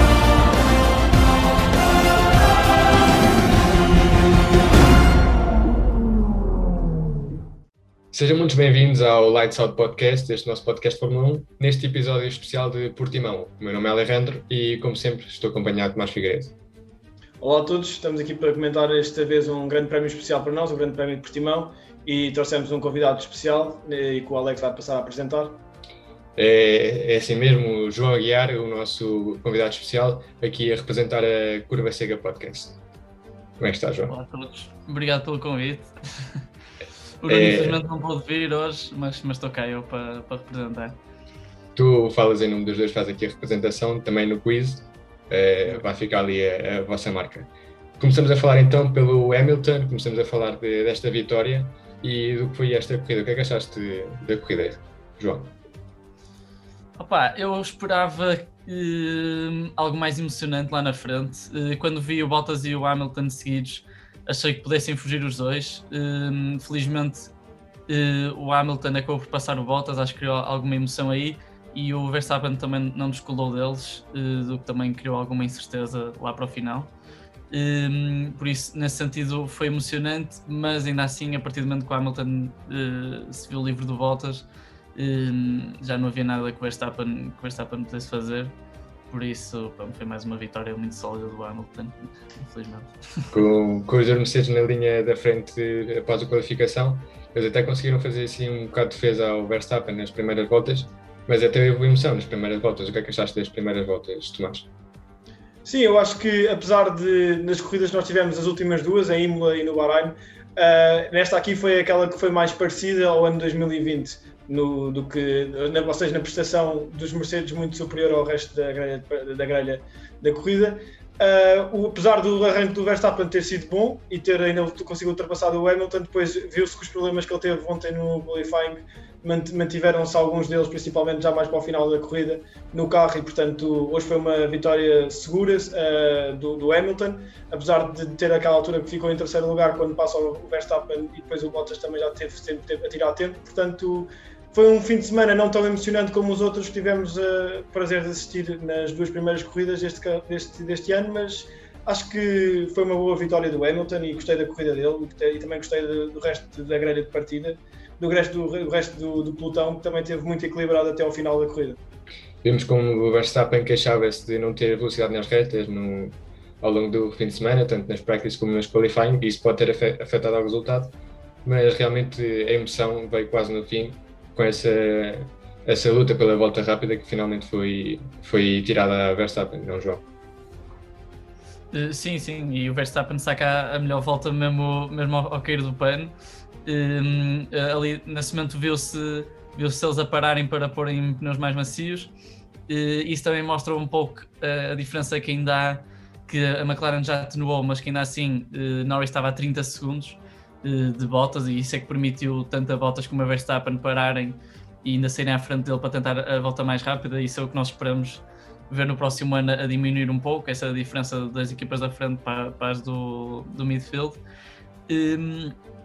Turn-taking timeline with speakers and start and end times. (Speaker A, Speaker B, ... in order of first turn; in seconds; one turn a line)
Speaker A: 8.1-16.5
Speaker B: 17.4-25.6
Speaker A: 26.4-32.8
Speaker A: 33.6-34.1
Speaker C: 34.1-35.9
Speaker C: 37.2-41.0
Speaker A: 37.3-37.8
Speaker A: 41.8-55.5
Speaker C: 57.0-67.3
Speaker C: 67.9-76.9
Speaker C: 77.5-88.5
Speaker C: 89.1-93.3
Speaker A: 93.3-104.7
Speaker B: 105.7-161.8
Speaker A: 162.4-170.9
Speaker A: 171.4-180.0
Speaker C: 181.7-186.1
Speaker C: 186.7-192.1
Speaker C: 192.7-214.2
Speaker C: 214.9-215.5